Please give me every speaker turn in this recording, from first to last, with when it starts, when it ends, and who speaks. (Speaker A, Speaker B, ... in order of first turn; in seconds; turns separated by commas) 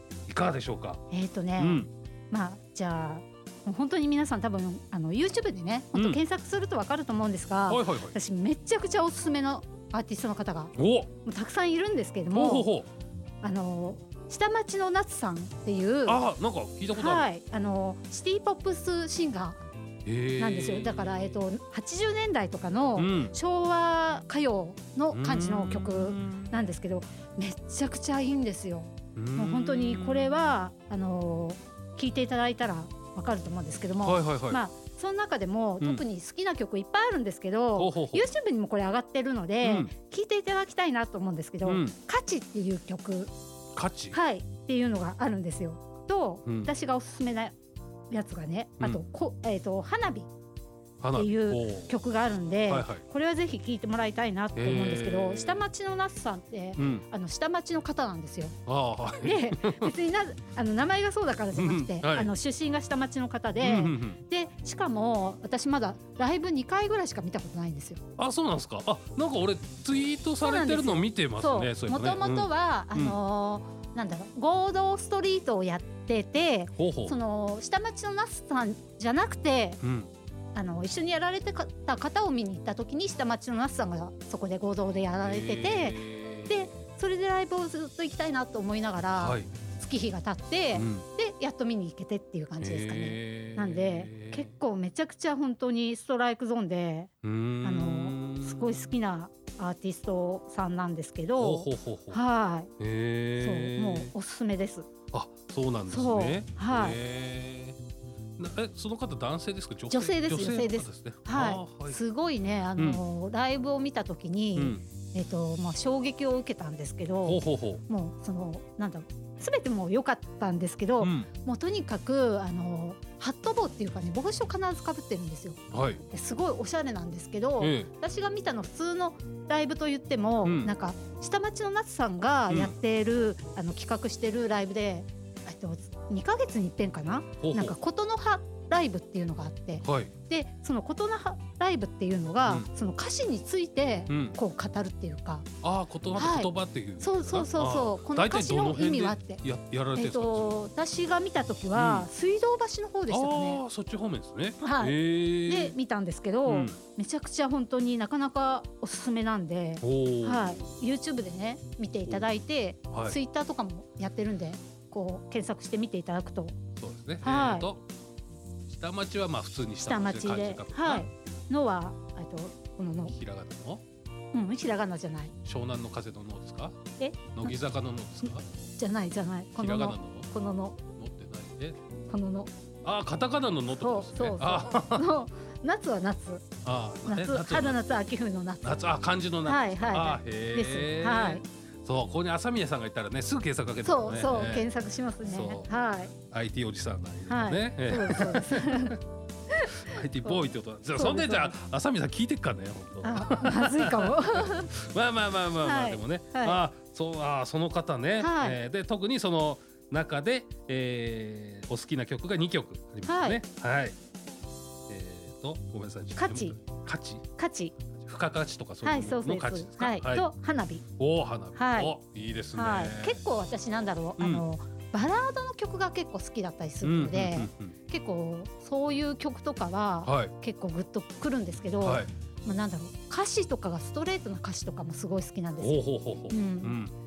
Speaker A: 0.3-1.0, Speaker B: 1.1-12.7, Speaker A: 1.6-1.9, Speaker A: 5.9-6.2, Speaker A: 7.7-8.2, Speaker A: 10.8-11.1, Speaker A: 12.3-12.9, Speaker B: 13.4-16.2, Speaker A: 16.1-17.3, Speaker B: 16.9-19.6, Speaker A: 20.1-21.4, Speaker B: 20.4-43.3, Speaker A: 23.0-23.4, Speaker A: 25.1-26.6, Speaker A: 29.1-30.4, Speaker A: 34.0-34.6, Speaker A: 37.8-38.2, Speaker A: 39.6-40.0, Speaker A: 41.6-42.0, Speaker A: 43.7-44.2, Speaker B: 44.1-47.5, Speaker A: 46.5-46.7, Speaker B: 48.1-50.3, Speaker A: 51.0-51.9, Speaker B: 51.1-58.6, Speaker A: 52.7-53.0, Speaker A: 54.5-55.6, Speaker A: 56.8-57.1, Speaker A: 58.6-59.9, Speaker B: 59.1-68.0, Speaker A: 61.5-62.3, Speaker A: 63.7-64.2, Speaker A: 68.2-73.2, Speaker B: 70.4-79.8, Speaker A: 76.8-77.2, Speaker A: 79.8-80.1, Speaker B: 80.5-97.1, Speaker A: 85.2-86.7, Speaker A: 89.2-89.6, Speaker A: 90.7-91.1, Speaker A: 92.6-94.5, Speaker A: 97.2-99.0, Speaker B: 97.6-102.7, Speaker A: 101.4-102.2, Speaker A: 102.8-104.1, Speaker B: 103.4-104.9, Speaker A: 105.0-107.8, Speaker B: 105.9-107.0, Speaker A: 108.4-112.0, Speaker B: 109.9-145.5, Speaker A: 112.8-113.0, Speaker A: 114.6-114.9, Speaker A: 117.2-117.8, Speaker A: 121.0-121.3, Speaker A: 125.7-126.0, Speaker A: 127.6-127.9, Speaker A: 130.4-130.7, Speaker A: 132.5-132.8, Speaker A: 137.4-137.8, Speaker A: 139.8-140.2, Speaker A: 144.1-144.4, Speaker A: 145.6-150.6, Speaker B: 146.2-149.4, Speaker B: 149.9-153.6, Speaker A: 151.7-152.1, Speaker A: 153.1-155.8, Speaker B: 154.6-166.6, Speaker A: 156.4-156.8, Speaker A: 159.8-160.7, Speaker A: 162.9-163.2, Speaker A: 166.7-167.8, Speaker B: 167.2-167.7, Speaker A: 168.7-171.1, Speaker B: 169.8-173.1, Speaker A: 173.0-173.8, Speaker B: 174.3-175.3, Speaker A: 175.4-178.4, Speaker B: 177.0-177.5, Speaker B: 178.3-180.9, Speaker A: 179.6-180.3, Speaker A: 180.9-181.8, Speaker B: 182.1-182.5, Speaker A: 182.8-185.1, Speaker B: 183.7-186.5, Speaker A: 186.6-187.8, Speaker B: 187.1-188.8, Speaker A: 188.6-199.0, Speaker B: 189.4-191.4, Speaker B: 193.8-196.2, Speaker B: 197.3-199.0, Speaker B: 199.5-201.5, Speaker A: 199.7-214.0, Speaker B: 203.0-204.7, Speaker B: 205.6-206.6, Speaker B: 208.2-208.6, Speaker B: 213.1-213.4, Speaker A: 214.9-220.3, Speaker B: 216.2-216.6, Speaker B: 217.4-217.8, Speaker B: 218.8-220.9, Speaker A: 220.9-223.2, Speaker B: 221.6-221.9, Speaker B: 222.5-236.8, Speaker A: 224.2-224.4, Speaker A: 226.8-227.8, Speaker A: 230.0-230.3, Speaker A: 231.8-232.1, Speaker A: 235.6-236.9